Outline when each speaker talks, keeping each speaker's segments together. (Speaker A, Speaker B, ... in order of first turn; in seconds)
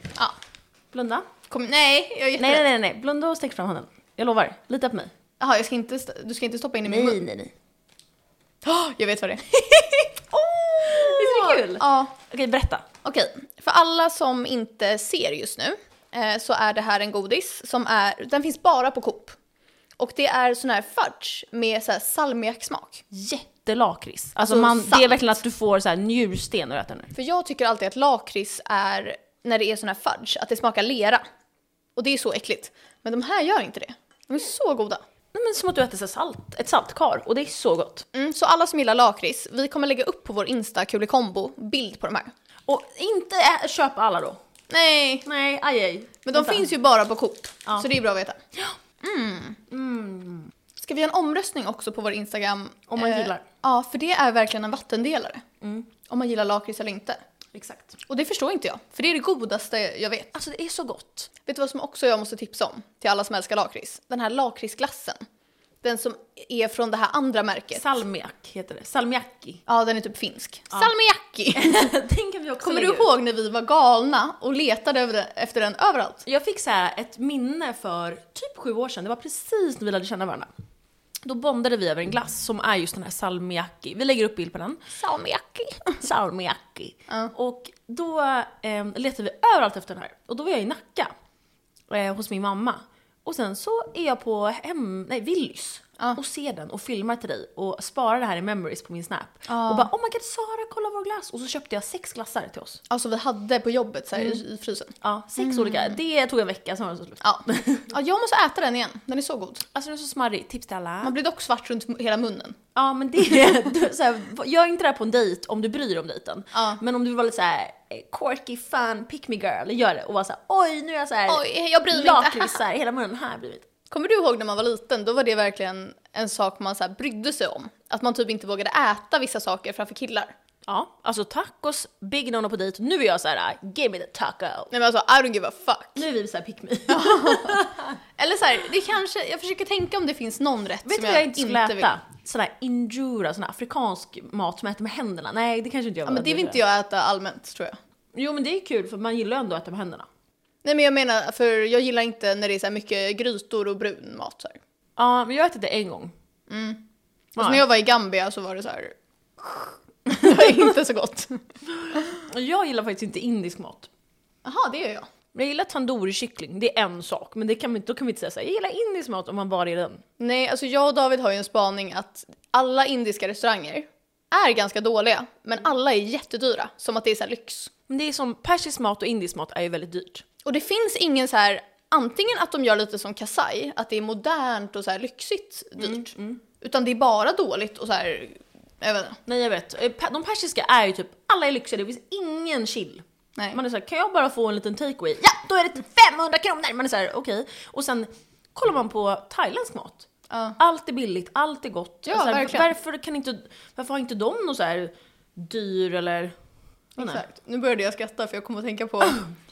Speaker A: 0.9-1.3, 2.4-5.1, 6.9-7.5, 10.3-12.9, 23.1-27.1, 35.3-38.1, 42.7-44.4, 45.2-46.7, 49.7-50.5, 52.9-53.4, 57.5-58.0, 60.3-61.3, 67.7-69.6, 71.5-73.1, 76.2-80.5, 81.2-84.9, 86.0-91.1, 91.9-102.8, 104.2-104.4, 105.0-107.9, 109.7-111.1, 112.8-123.7, 130.7-134.7, 136.0-138.0, 140.8-146.6, 148.1-150.1, 155.0-156.1, 157.4-157.6, 161.9-163.9, 165.3-170.0, 177.9-180.2, 185.8-186.4, 189.3-200.1, 200.6-206.3
Speaker B: 1.5-2.6, 5.4-7.2, 8.6-10.2, 10.8-12.1, 13.0-19.4, 20.0-23.1, 24.4-25.4, 27.1-31.2, 32.0-35.0, 38.1-42.3, 44.7-45.3, 46.3-48.4, 49.0-49.6, 50.8-57.2, 58.1-60.3, 61.5-65.2, 65.8-67.8, 69.7-71.8, 72.6-76.2, 85.0-86.0, 99.5-99.9, 102.9-106.0, 107.2-109.7, 111.0-112.6, 116.5-116.8, 121.3-122.6, 123.9-130.3, 134.7-136.0, 136.9-137.7, 138.2-141.9, 146.1-147.8, 150.6-154.6, 156.5-156.8, 157.4-161.4, 164.4-165.1, 170.2-177.7, 180.4-189.2, 200.3-200.6, 202.1-202.7, 207.0-209.2